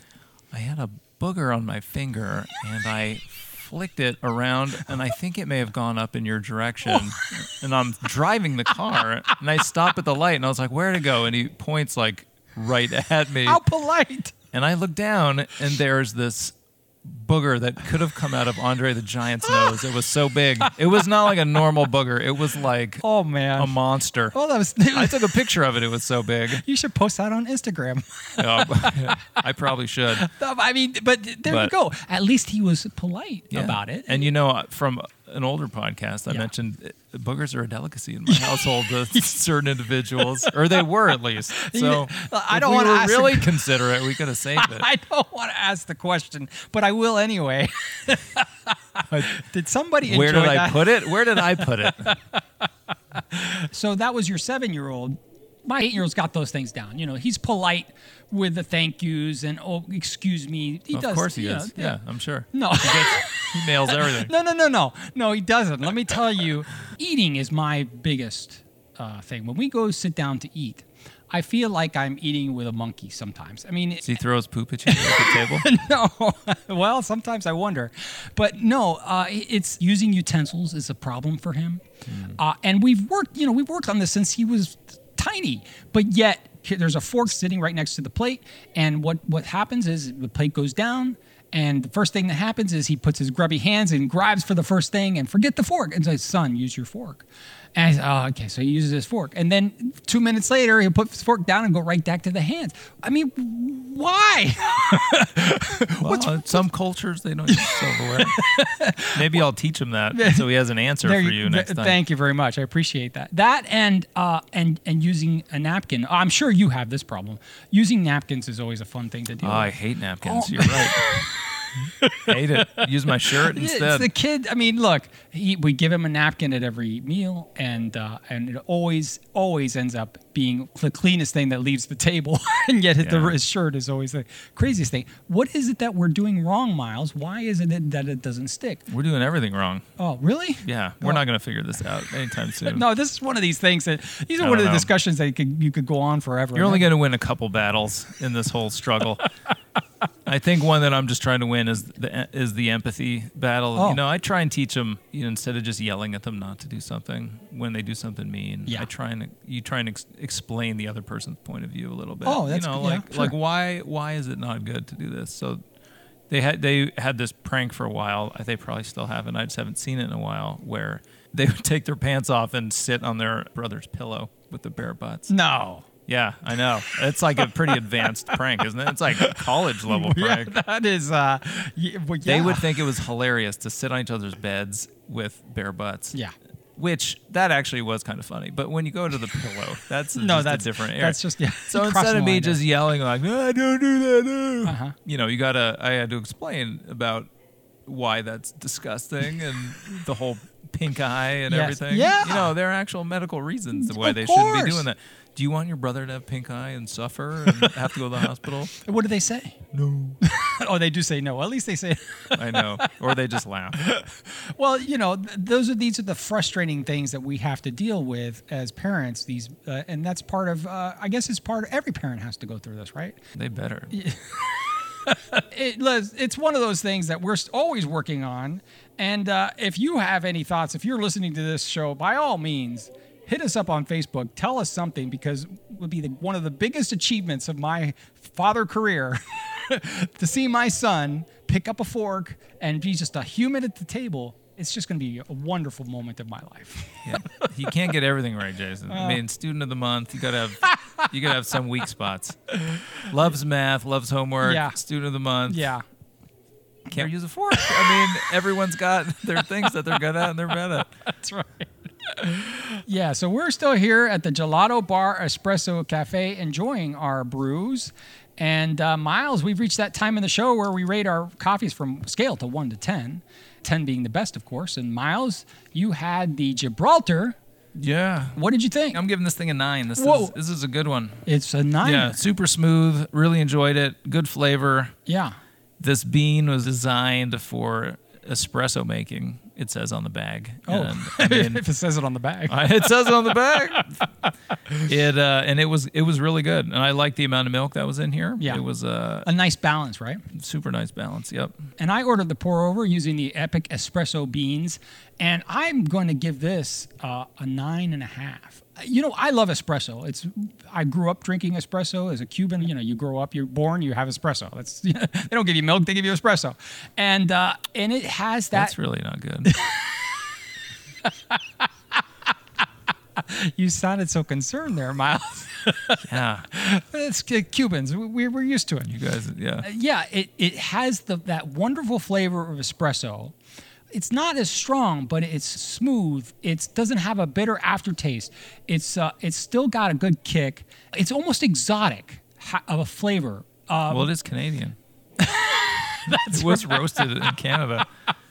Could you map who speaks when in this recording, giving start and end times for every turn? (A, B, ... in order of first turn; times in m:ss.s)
0:00.5-0:13.6 A
0:13.5-0:14.3 B
0:14.5-0:23.0 A
0:23.0-0:23.8 B
0:23.6-0:24.4 A
0:24.3-0:25.3 B
0:24.9-0:26.6 A
0:26.5-0:29.4 B
0:28.4-0:30.3 A
0:30.2-0:34.2 B
0:31.5-0:31.7 A
0:33.5-0:44.9 A
0:38.3-0:38.6 B
0:40.2-0:40.5 B
0:41.6-0:43.7 B
0:44.6-0:52.4 B
0:50.0-0:52.2 A
0:53.1-1:02.0 B
1:00.9-1:04.3 A
1:02.5-1:14.1 B
1:14.0-1:15.7 A
1:14.9-1:21.8 B
1:22.1-1:22.4 A
1:22.4-1:46.6 B
1:46.0-1:48.4 A
1:47.5-1:49.4 B
1:49.1-1:52.0 A
1:50.1-1:50.4 B
1:51.0-2:18.9 B
1:59.4-2:01.1 A
2:02.2-2:04.1 A
2:13.0-2:13.4 A
2:18.9-2:19.8 A
2:20.0-2:21.2 B
2:20.6-2:22.9 A
2:22.6-2:26.9 B
2:24.4-2:24.9 A
2:26.6-2:29.3 A
2:30.3-2:45.6 A
2:42.2-2:43.3 B
2:46.3-2:55.3 A
2:55.3-2:55.9 B
2:56.1-3:00.5 A
2:57.4-2:58.0 B
2:59.8-3:02.8 B
3:02.2-3:06.2 A
3:06.8-3:17.3 A
3:10.2-3:12.6 B
3:14.6-3:15.0 B
3:17.9-3:28.7 A
3:21.5-3:22.5 B
3:23.8-3:24.8 B
3:28.7-3:29.6 B
3:29.7-3:30.2 A
3:30.2-3:32.9 B
3:32.4-3:33.9 A
3:33.8-3:43.2 B
3:43.4-3:43.9 A
3:43.9-4:07.5 B
4:07.0-4:15.7 A
4:08.9-4:09.2 B
4:14.4-4:14.8 B
4:15.5-4:15.8 B
4:16.9-4:18.0 B
4:16.9-4:20.9 A
4:21.1-4:37.4 B
4:37.8-4:38.4 A
4:38.4-4:39.0 B
4:38.9-4:41.2 A
4:40.0-4:40.3 B
4:41.3-4:42.2 B
4:41.8-4:44.9 A
4:45.1-4:45.4 B
4:45.8-4:51.6 A
4:50.7-4:53.8 B
4:52.5-4:54.0 A
4:54.8-4:59.3 A
4:59.2-5:00.2 B
5:00.3-5:01.5 A
5:01.8-5:18.7 B
5:18.5-5:19.5 A
5:19.5-5:20.2 B
5:21.0-5:21.4 B
5:23.2-5:28.9 B
5:26.0-5:26.5 A
5:28.8-5:29.7 A
5:29.6-5:33.4 B
5:33.9-5:44.1 B
5:43.9-5:44.8 A
5:45.2-5:47.3 B
5:46.1-5:47.9 A